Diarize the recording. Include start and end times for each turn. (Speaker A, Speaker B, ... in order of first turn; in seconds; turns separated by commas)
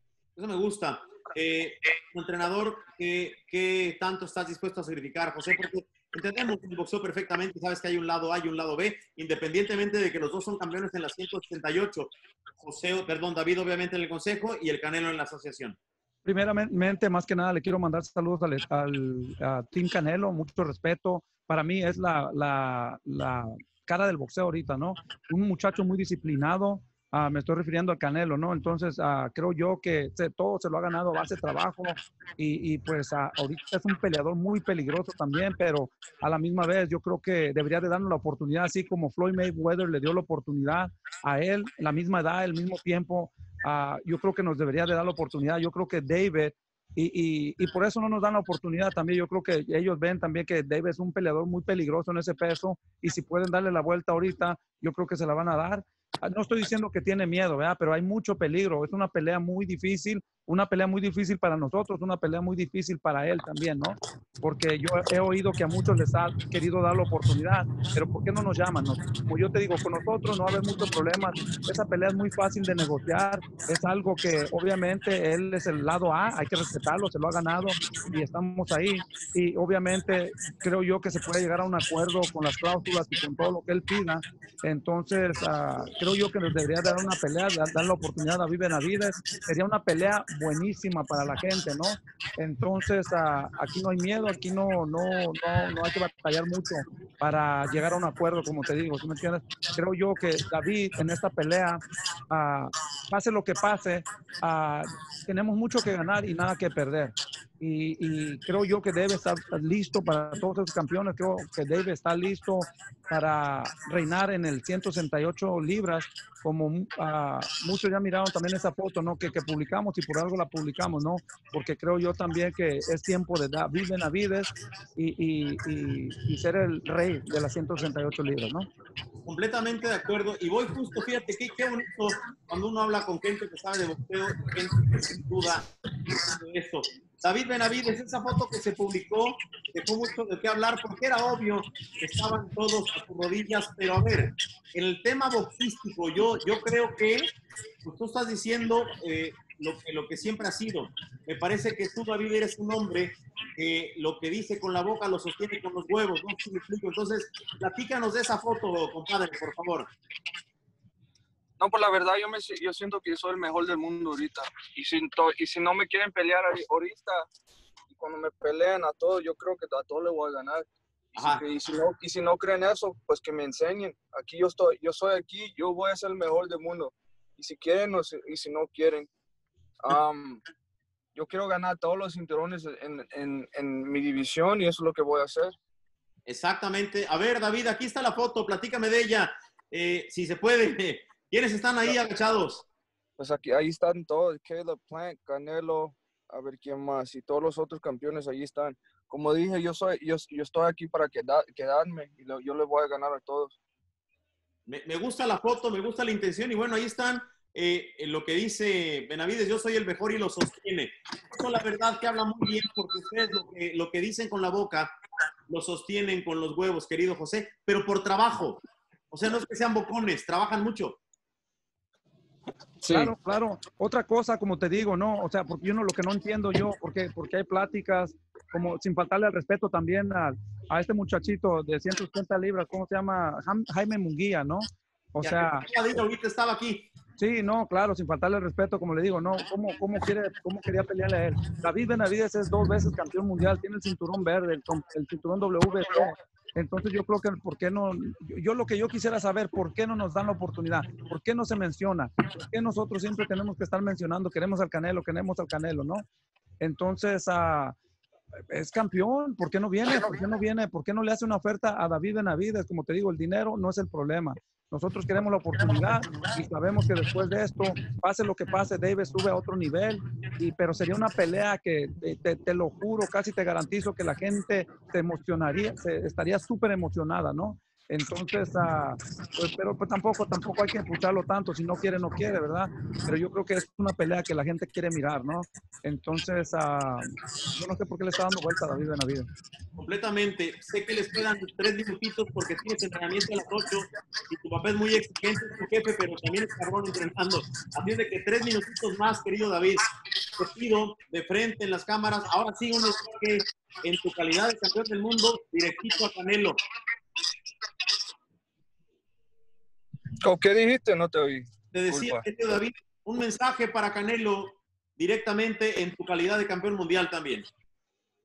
Speaker A: 0.4-15.8, Speaker B: 16.2-128.7, Speaker A: 129.2-135.7, Speaker A: 136.2-147.3, Speaker A: 147.8-159.9, Speaker C: 161.6-167.2, Speaker C: 167.9-170.6, Speaker C: 171.1-179.0, Speaker A: 171.2-171.5, Speaker C: 179.8-180.4, Speaker C: 181.2-185.4, Speaker A: 186.3-192.7, Speaker C: 193.2-203.5, Speaker A: 204.7-214.9, Speaker A: 215.5-221.0, Speaker C: 222.8-223.1, Speaker B: 222.9-235.7, Speaker A: 235.2-236.9, Speaker B: 237.2-256.1, Speaker B: 256.6-257.8, Speaker B: 258.5-289.3, Speaker A: 289.8-306.6, Speaker C: 310.2-312.2, Speaker A: 311.7-317.5